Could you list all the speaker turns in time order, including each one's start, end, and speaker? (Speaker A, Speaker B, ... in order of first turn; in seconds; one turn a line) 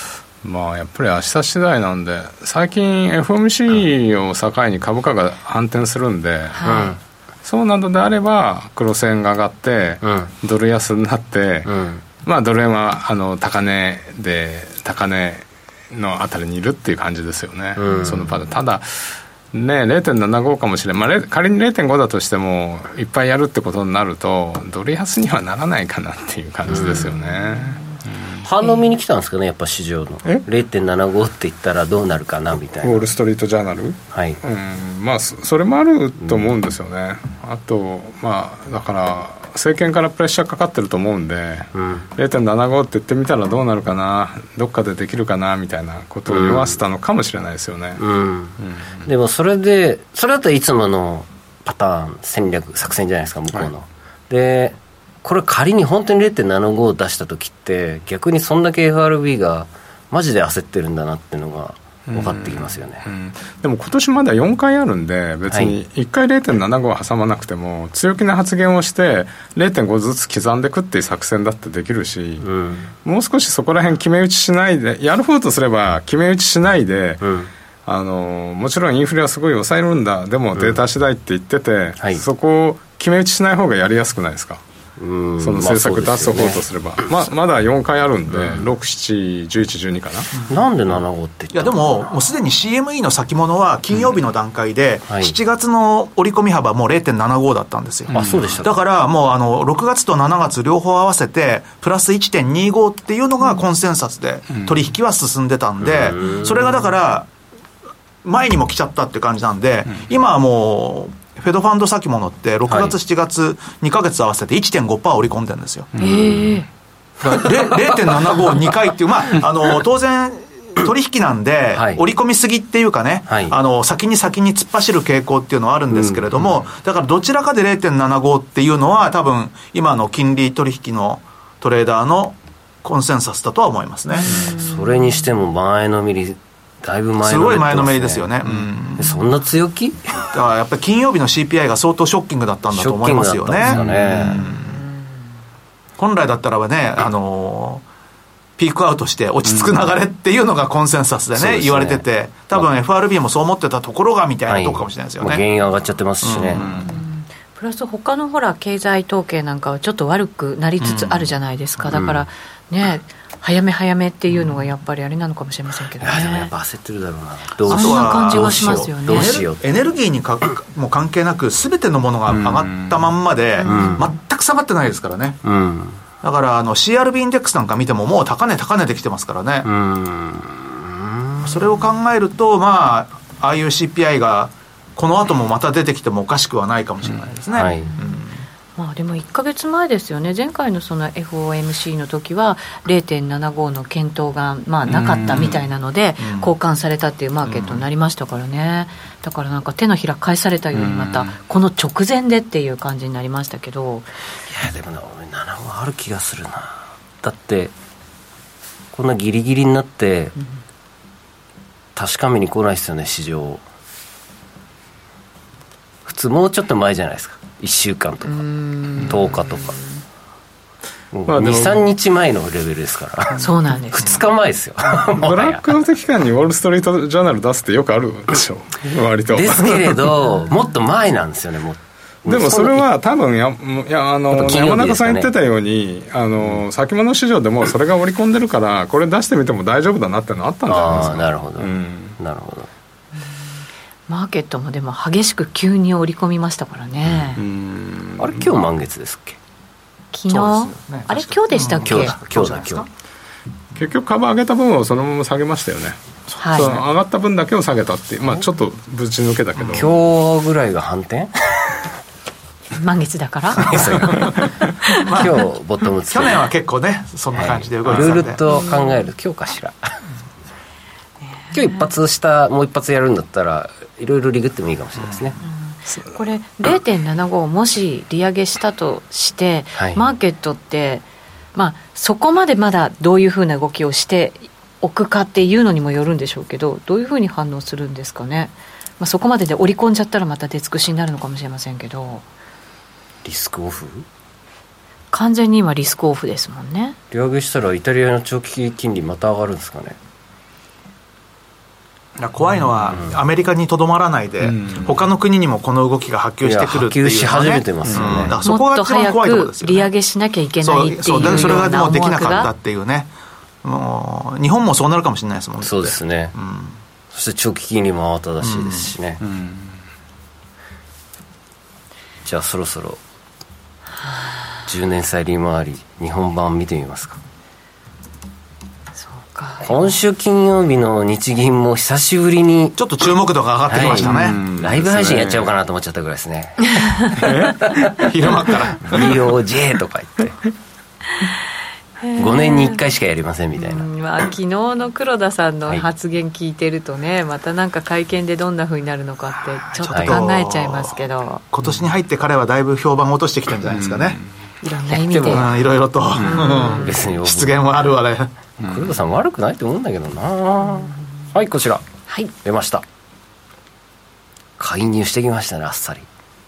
Speaker A: 0.4-6.8
Speaker B: 6.5-6.9
Speaker C: 6.6-7.0
Speaker A: 7.4-28.4
Speaker C: 10.0-10.3
Speaker C: 11.7-12.0
Speaker C: 17.8-18.3
Speaker C: 26.7-27.1
Speaker B: 27.2-27.8
Speaker C: 28.4-33.1
Speaker A: 32.8-48.0
Speaker C: 34.1-34.4
Speaker C: 41.7-42.1
Speaker C: 46.3-46.8
Speaker C: 48.0-63.0
Speaker A: 48.6-49.1
Speaker A: 62.1-72.5
Speaker C: 65.5-65.8
Speaker C: 72.4-72.9
Speaker A: 73.0-77.3
Speaker C: 77.2-77.5
Speaker A: 77.8-84.6
Speaker C: 80.5-80.8
Speaker C: 85.0-86.6
Speaker A: 85.4-90.3
Speaker C: 88.3-88.7
Speaker C: 90.5-92.1
Speaker D: 91.5-107.3
Speaker C: 98.1-98.7
Speaker A: 98.1-98.5
Speaker C: 105.8-106.7
Speaker D: 108.2-115.9
Speaker C: 112.7-113.0
Speaker B: 116.0-116.7
Speaker D: 117.2-134.5
Speaker C: 121.7-122.0
Speaker C: 123.3-123.5
Speaker C: 125.9-126.5
Speaker C: 134.3-140.1
Speaker B: 134.3-135.2
Speaker D: 137.2-139.2
Speaker D: 140.3-144.8
Speaker C: 142.7-144.4
Speaker A: 143.7-144.4
Speaker D: 146.0-147.8
Speaker D: 148.6-155.4
Speaker C: 151.3-152.7
Speaker C: 154.5-156.7
Speaker D: 156.2-156.8
Speaker A: 156.5-156.9
Speaker B: 156.8-166.5
Speaker D: 160.8-161.3
Speaker C: 166.0-169.6
Speaker B: 167.7-169.3
Speaker D: 167.7-175.4
Speaker A: 172.3-173.0
Speaker B: 173.6-174.1
Speaker C: 173.7-174.0
Speaker C: 175.4-176.0
Speaker D: 176.2-179.7
Speaker C: 179.6-181.7
Speaker D: 181.4-188.4
Speaker C: 187.5-187.9
Speaker B: 188.8-204.1
Speaker A: 194.9-195.6
Speaker D: 196.2-196.5
Speaker D: 197.4-197.9
Speaker A: 200.8-201.3
Speaker C: 204.5-207.7
Speaker C: 208.9-210.3
Speaker C: 211.9-213.6
Speaker C: 216.0-218.4
Speaker B: 218.3-219.8
Speaker C: 219.0-219.8
Speaker C: 221.1-225.7
Speaker A: 221.3-221.9
Speaker B: 223.4-224.1
Speaker A: 225.0-230.1
Speaker C: 229.3-232.9
Speaker A: 232.2-242.2
Speaker C: 234.3-235.3
Speaker C: 240.7-242.7
Speaker B: 244.1-247.4
Speaker A: 247.3-248.6
Speaker C: 248.2-249.4
Speaker B: 250.1-252.1
Speaker D: 250.3-252.9
Speaker C: 251.8-252.8
Speaker A: 253.7-259.9
Speaker B: 256.4-256.7
Speaker D: 256.5-256.8
Speaker D: 259.6-259.9
Speaker C: 259.7-261.8
Speaker B: 262.7-264.0
Speaker C: 263.6-264.4
Speaker D: 263.7-264.5
Speaker B: 264.8-265.1
Speaker D: 265.0-265.4
Speaker C: 265.1-266.4
Speaker D: 266.1-268.4
Speaker C: 267.3-270.0
Speaker A: 267.9-268.3
Speaker B: 268.5-269.0
Speaker B: 271.5-271.8
Speaker C: 271.5-275.4
Speaker D: 275.0-275.3
Speaker B: 275.4-281.0
Speaker C: 279.8-280.0
Speaker B: 281.5-292.2
Speaker C: 293.2-294.1
Speaker B: 295.1-296.9
Speaker C: 297.1-300.0
Speaker D: 302.2-309.9
Speaker A: 304.4-304.9
Speaker C: 306.4-308.4
Speaker A: 307.9-308.3
Speaker B: 308.4-312.5
Speaker D: 310.6-313.1
Speaker A: 311.2-311.5
Speaker D: 313.6-316.8
Speaker C: 315.6-316.3
Speaker C: 317.1-319.2
Speaker D: 318.4-318.9
Speaker A: 319.2-319.6
Speaker C: 322.2-323.0
Speaker C: 324.7-327.2
Speaker B: 329.0-329.8
Speaker C: 329.6-332.8
Speaker D: 332.8-334.4
Speaker C: 333.7-338.0
Speaker A: 333.8-335.5
Speaker A: 337.2-337.7
Speaker D: 337.9-339.2
Speaker C: 338.8-340.4
Speaker B: 342.0-342.8
Speaker C: 342.1-343.9
Speaker B: 343.6-351.4
Speaker D: 349.8-354.2
Speaker C: 349.9-350.2
Speaker A: 353.7-354.2
Speaker B: 354.6-355.5
Speaker C: 354.9-355.5
Speaker D: 355.3-358.3
Speaker B: 356.2-357.0
Speaker C: 356.5-357.6
Speaker C: 358.6-361.8
Speaker C: 362.4-362.8
Speaker C: 364.6-366.1